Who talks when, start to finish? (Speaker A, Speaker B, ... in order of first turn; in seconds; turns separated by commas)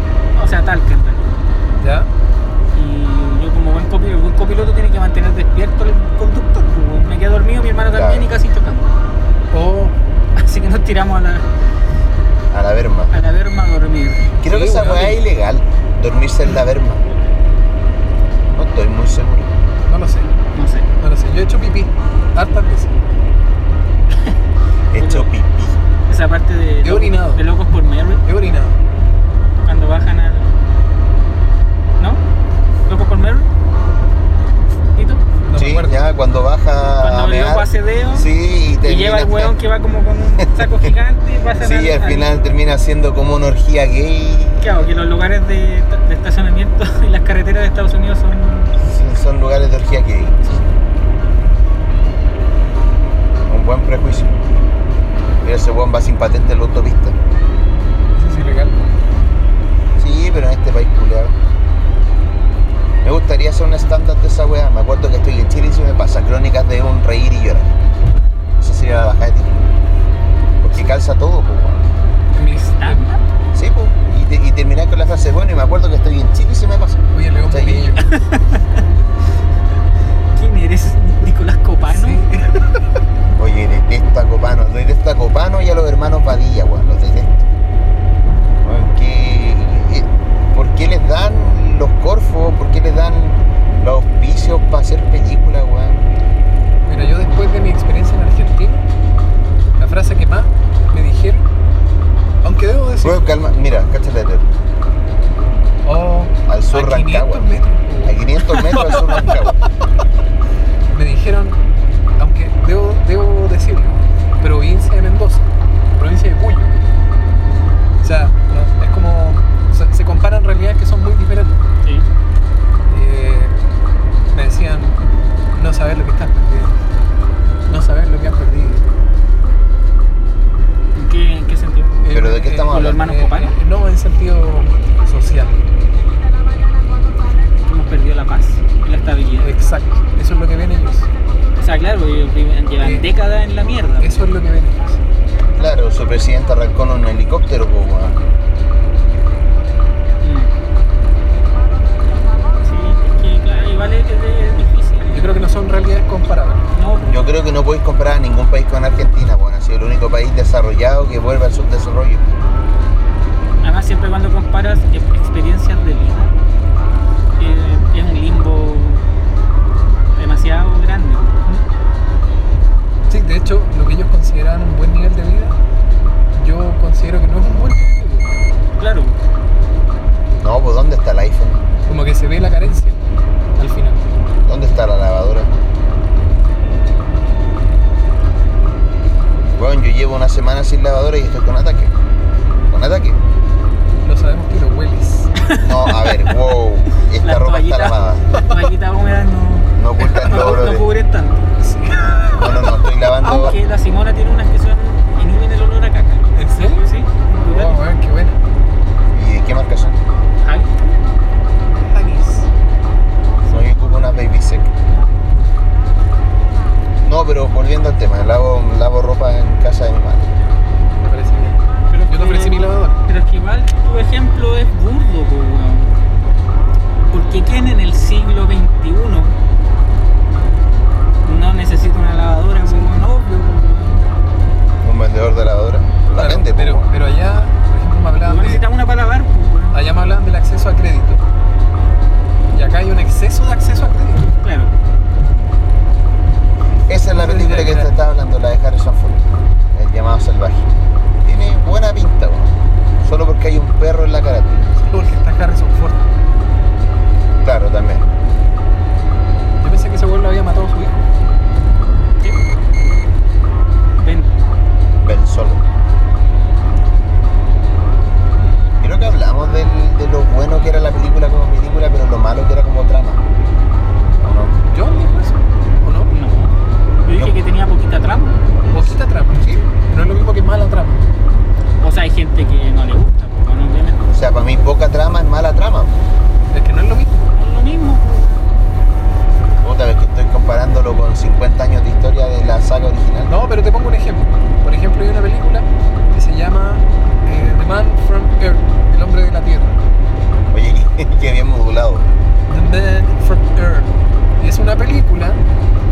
Speaker A: 0.3-1.3, Speaker B: 1.8-2.1, Speaker A: 2.7-8.9, Speaker C: 7.9-8.3, Speaker B: 9.5-9.9, Speaker A: 10.3-11.5, Speaker C: 12.5-13.1, Speaker A: 13.1-14.3, Speaker C: 14.4-17.0, Speaker B: 14.4-15.2, Speaker A: 17.1-17.3, Speaker C: 18.5-19.6, Speaker B: 19.8-20.3, Speaker A: 20.5-20.9, Speaker B: 21.0-23.1, Speaker C: 24.9-25.8, Speaker A: 24.9-25.3, Speaker A: 26.1-28.2, Speaker B: 26.8-27.4, Speaker B: 28.2-28.8, Speaker A: 29.6-30.6, Speaker A: 32.9-33.5, Speaker A: 35.0-35.2, Speaker B: 35.5-36.0, Speaker C: 35.5-39.5, Speaker A: 37.0-38.3, Speaker A: 38.8-42.4, Speaker C: 40.4-40.9, Speaker C: 41.6-44.8, Speaker A: 44.6-48.7, Speaker C: 48.8-50.4, Speaker C: 53.5-54.3, Speaker C: 55.4-57.2, Speaker B: 58.1-58.8, Speaker C: 60.0-61.3, Speaker C: 63.0-67.8, Speaker C: 68.6-69.7, Speaker C: 70.6-71.8, Speaker B: 72.3-73.0, Speaker A: 72.4-73.2, Speaker C: 73.5-78.0, Speaker B: 77.1-78.2, Speaker A: 78.0-78.8, Speaker A: 80.3-82.2, Speaker B: 81.9-83.0, Speaker C: 83.3-87.4, Speaker C: 88.6-96.1, Speaker B: 96.8-98.8, Speaker B: 99.8-101.5, Speaker B: 102.4-103.3, Speaker C: 103.0-104.5, Speaker B: 105.8-109.4, Speaker C: 106.5-107.5, Speaker C: 108.0-109.6, Speaker B: 110.9-111.6, Speaker B: 112.2-116.7, Speaker B: 118.0-121.6, Speaker A: 121.8-122.1, Speaker B: 122.9-123.6, Speaker B: 124.3-125.0, Speaker B: 125.5-126.7, Speaker B: 127.7-128.8, Speaker A: 130.9-131.9, Speaker B: 132.0-135.6, Speaker C: 132.1-133.0, Speaker A: 132.7-133.5, Speaker A: 137.6-139.5, Speaker B: 139.4-141.1, Speaker A: 141.6-144.2, Speaker B: 142.8-143.1, Speaker B: 144.0-145.0, Speaker C: 145.6-148.2, Speaker A: 150.2-150.5, Speaker A: 152.6-155.4, Speaker B: 155.1-156.6, Speaker A: 156.7-157.2, Speaker C: 157.1-162.2, Speaker A: 163.6-166.3, Speaker A: 167.4-169.1, Speaker A: 170.1-171.4, Speaker B: 173.1-175.6, Speaker B: 176.3-178.3, Speaker A: 178.8-179.2, Speaker C: 180.4-181.6, Speaker B: 181.8-183.0, Speaker B: 183.6-184.1, Speaker C: 184.4-185.5, Speaker C: 189.6-191.9, Speaker C: 192.7-193.2, Speaker B: 194.0-195.3, Speaker A: 195.4-196.4, Speaker C: 195.6-198.2, Speaker A: 197.2-201.5, Speaker C: 199.8-200.8, Speaker B: 201.6-202.6, Speaker C: 202.3-203.6, Speaker A: 203.2-207.8, Speaker B: 206.3-208.4, Speaker C: 209.1-210.0, Speaker A: 210.4-210.9, Speaker B: 211.8-212.5, Speaker C: 213.5-214.7, Speaker C: 217.0-220.3, Speaker B: 221.0-223.0, Speaker A: 221.9-225.9, Speaker A: 227.1-229.3, Speaker A: 231.2-234.1, Speaker B: 232.6-232.9, Speaker C: 234.8-236.9, Speaker B: 236.2-238.6, Speaker A: 238.2-239.8, Speaker B: 239.7-241.2, Speaker B: 242.5-244.3, Speaker A: 244.4-244.7, Speaker C: 246.9-250.7, Speaker B: 247.1-247.9, Speaker C: 251.2-254.8, Speaker B: 254.8-256.1, Speaker C: 257.4-258.1, Speaker B: 259.6-261.0, Speaker A: 264.0-264.3, Speaker C: 265.0-265.6, Speaker C: 268.8-273.2, Speaker C: 274.2-274.6, Speaker B: 274.6-276.1, Speaker A: 276.1-278.4, Speaker B: 278.7-281.1, Speaker A: 281.8-284.1, Speaker C: 284.1-285.9, Speaker B: 286.5-287.2, Speaker A: 287.3-288.5, Speaker C: 289.6-293.3, Speaker B: 293.3-299.8, Speaker C: 300.5-302.1, Speaker B: 302.5-305.4